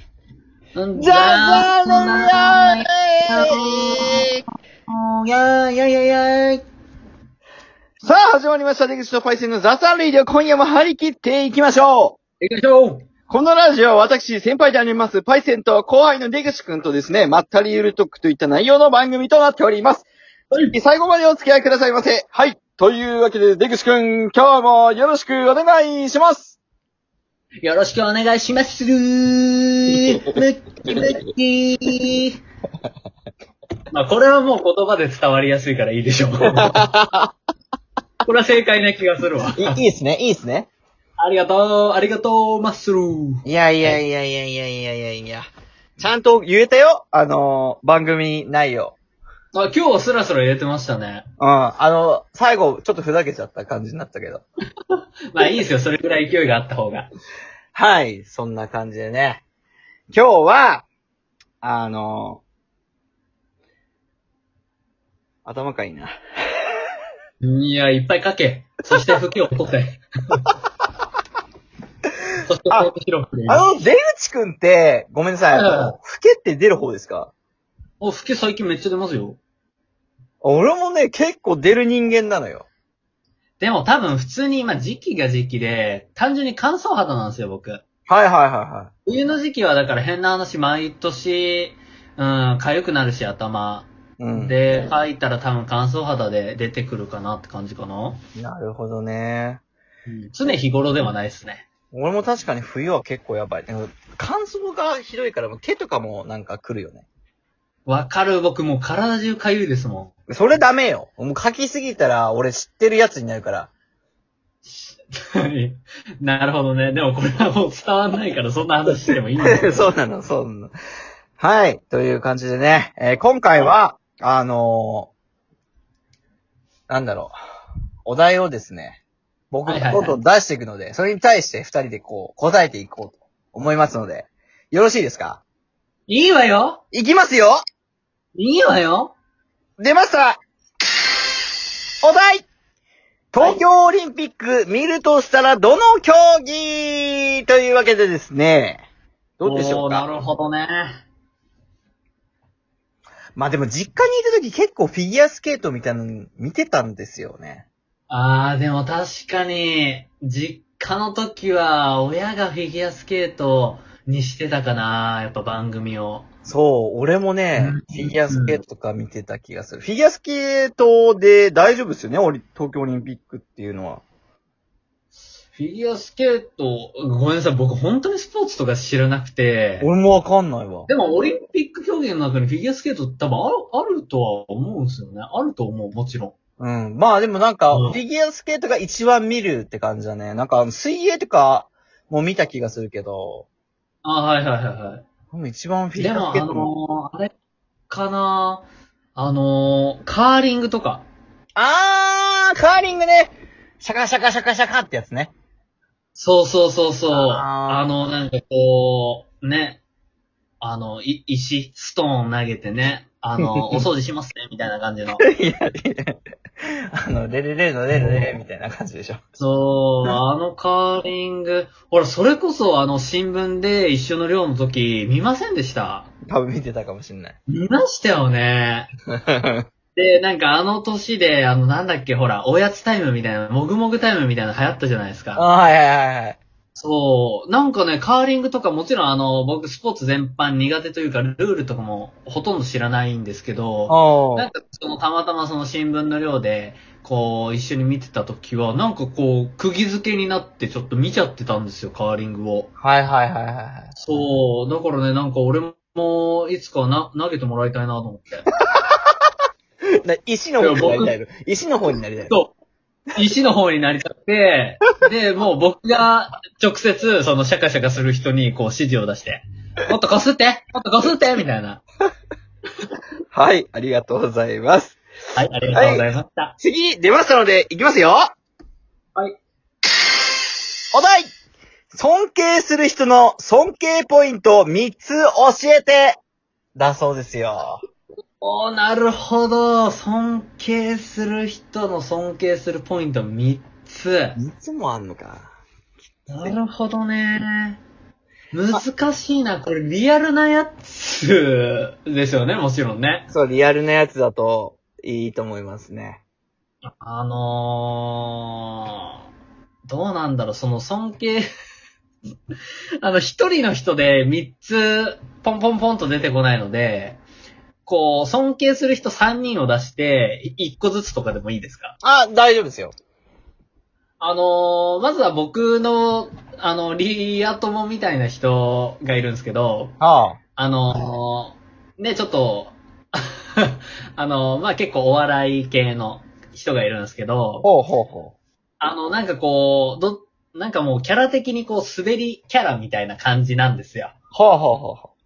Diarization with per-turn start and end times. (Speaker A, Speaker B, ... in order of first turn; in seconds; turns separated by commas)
Speaker A: 0.8-4.3, Speaker B: 1.0-4.4, Speaker A: 4.9-6.6, Speaker B: 8.0-12.2, Speaker A: 12.4-13.1, Speaker B: 13.3-20.1, Speaker B: 20.7-26.6, Speaker A: 27.6-32.4, Speaker A: 33.9-36.8, Speaker B: 36.5-37.3, Speaker A: 38.2-39.8, Speaker B: 39.6-40.7, Speaker A: 41.2-44.0, Speaker B: 43.5-49.0, Speaker A: 49.5-51.2, Speaker B: 51.4-54.4, Speaker A: 54.9-57.1, Speaker B: 57.7-59.4, Speaker B: 60.1-60.9, Speaker B: 61.6-62.4, Speaker B: 65.5-66.1, Speaker A: 67.4-70.5, Speaker A: 72.4-73.7, Speaker B: 73.5-77.3, Speaker A: 75.5-75.9, Speaker A: 78.0-79.4, Speaker B: 80.4-82.7, Speaker A: 83.6-87.8, Speaker B: 88.1-88.9, Speaker A: 89.1-98.2, Speaker B: 94.2-94.9, Speaker B: 98.4-99.6, Speaker A: 100.1-101.7, Speaker B: 101.9-107.0, Speaker A: 107.9-110.1, Speaker B: 110.3-113.7, Speaker A: 114.7-119.9, Speaker B: 118.9-120.7, Speaker B: 121.4-125.1, Speaker B: 126.9-127.3, Speaker B: 128.1-135.4, Speaker A: 129.7-130.2, Speaker A: 136.1-136.8, Speaker B: 136.9-137.6, Speaker A: 138.4-139.2, Speaker B: 139.8-140.4, Speaker B: 142.0-142.5, Speaker B: 143.3-148.9, Speaker A: 143.4-143.6, Speaker B: 149.4-150.1, Speaker A: 149.4-151.0, Speaker B: 153.4-157.7, Speaker A: 158.1-166.3, Speaker B: 166.4-174.0, Speaker A: 167.6-168.6, Speaker A: 175.5-179.9, Speaker B: 179.8-180.9, Speaker A: 180.9-186.3, Speaker B: 186.6-193.5, Speaker A: 187.7-188.0, Speaker A: 194.0-195.1, Speaker B: 195.3-196.7, Speaker A: 196.0-197.3, Speaker A: 197.9-201.1, Speaker B: 201.6-205.3, Speaker A: 206.2-209.8, Speaker B: 207.1-207.9, Speaker A: 210.6-215.2, Speaker B: 213.4-213.8, Speaker B: 215.2-219.2, Speaker A: 217.9-218.4, Speaker A: 219.4-226.1, Speaker B: 226.3-227.4, Speaker A: 227.5-228.9, Speaker B: 229.3-229.7, Speaker A: 230.0-235.4, Speaker B: 235.3-236.4, Speaker A: 236.8-252.7, Speaker B: 243.9-244.5, Speaker B: 252.8-253.9, Speaker A: 253.9-258.5, Speaker B: 260.0-262.3, Speaker A: 260.6-261.1, Speaker A: 262.3-262.6, Speaker A: 263.1-271.8, Speaker B: 273.3-275.0, Speaker A: 275.4-276.5, Speaker B: 275.7-276.1, Speaker B: 276.6-278.3, Speaker B: 280.9-281.3, Speaker B: 281.9-286.2, Speaker B: 286.8-287.8, Speaker A: 288.4-294.4, Speaker B: 294.4-295.5, Speaker A: 296.3-297.8, Speaker A: 298.5-303.3, Speaker B: 303.3-306.2, Speaker A: 306.9-309.1, Speaker A: 309.9-311.5, Speaker A: 313.0-317.2, Speaker A: 317.9-322.0, Speaker B: 322.0-322.9, Speaker A: 324.2-330.0, Speaker B: 330.0-330.4, Speaker A: 330.6-337.7, Speaker B: 337.6-338.4, Speaker A: 338.8-344.1, Speaker B: 344.3-345.1